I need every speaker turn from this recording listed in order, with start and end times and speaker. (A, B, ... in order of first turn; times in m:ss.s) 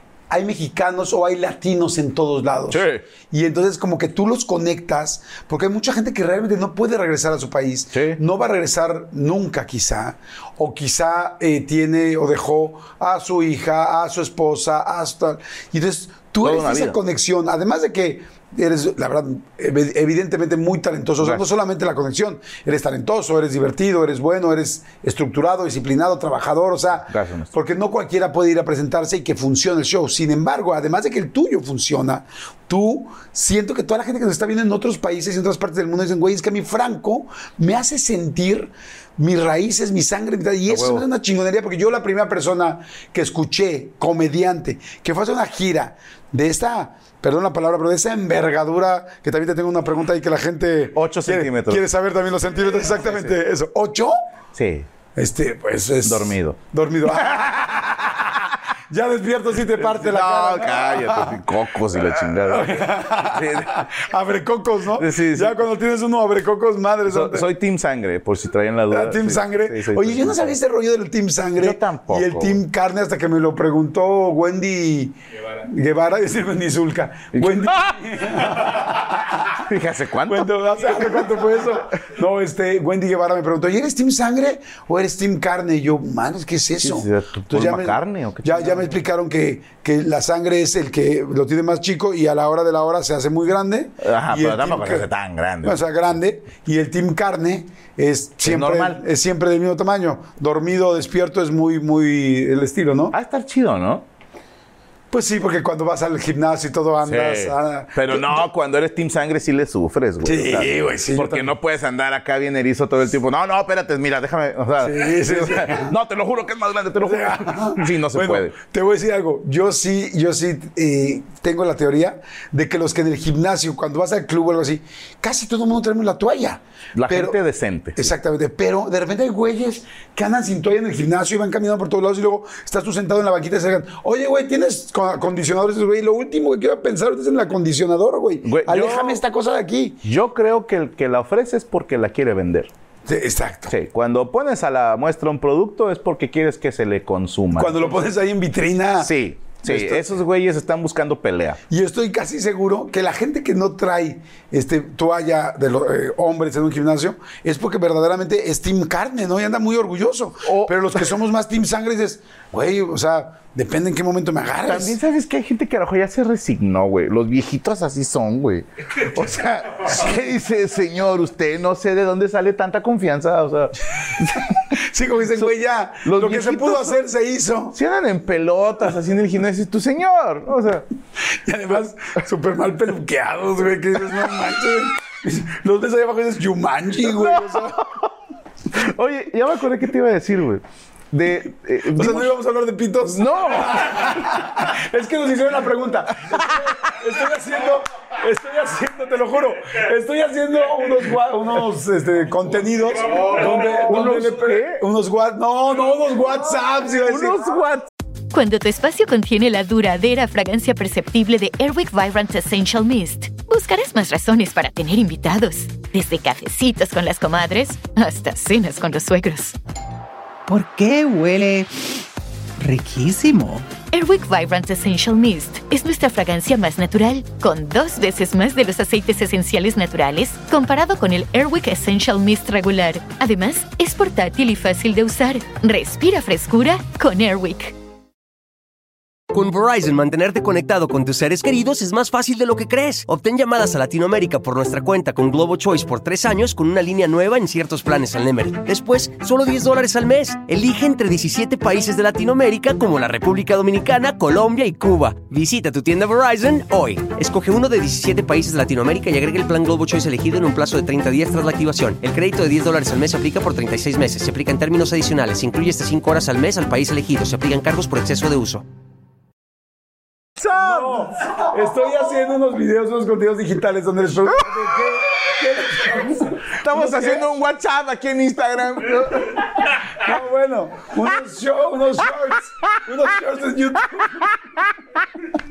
0:00.3-0:54.2 A
0:02.7-0:03.0 B
0:07.9-0:08.2 B
0:16.4-0:17.0 B
0:21.2-0:21.4 B
0:27.1-0:27.5 B
0:40.7-0:41.0 B
0:50.9-0:51.9 B
0:53.0-0:53.3 B
0:54.6-0:54.9 B
0:55.2-0:58.1 A
0:56.0-0:56.6 B
0:57.2-0:58.5 B
0:58.9-1:07.5 A
0:59.8-1:03.9 B
1:05.0-1:05.7 B
1:07.1-1:10.6 B
1:08.9-1:19.6 A
1:11.6-1:12.6 B
1:17.3-1:18.8 B
1:19.5-1:21.6 B
1:20.3-1:35.1 A
1:26.8-1:28.9 B
1:34.0-1:35.8 B
1:35.6-1:43.2 A
1:38.4-1:39.0 B
1:43.1-1:44.0 B
1:45.1-1:48.5 A
1:47.0-1:58.5 B
1:50.2-1:51.5 A
1:54.8-1:55.9 A
1:57.0-2:07.4 A
2:07.0-2:08.1 B
2:08.0-2:20.0 A
2:18.4-2:19.2 B
2:20.0-2:22.7 B
2:23.1-2:23.7 A
2:23.7-2:28.0 B
2:27.5-2:30.1 A
2:29.0-2:31.6 B
2:31.7-2:45.0 A
2:40.4-2:40.8 B
2:44.6-2:54.7 B
2:54.7-2:57.8 A
2:56.0-2:57.0 B
2:57.7-3:00.8 B
3:01.3-3:07.8 A
3:07.0-3:08.1 B
3:08.7-3:12.3 B
3:11.9-3:27.7 A
3:13.0-3:14.5 B
3:23.2-3:24.8 B
3:27.1-3:27.9 B
3:28.3-3:39.6 C
3:40.5-3:42.0 D
3:42.6-3:43.7 D
3:43.9-3:57.7 C
3:59.3-4:28.6 E
4:30.4-4:31.5 B
4:30.5-4:37.3 A
4:35.9-4:39.8 B
4:40.0-4:44.3 A
4:44.2-4:44.6 B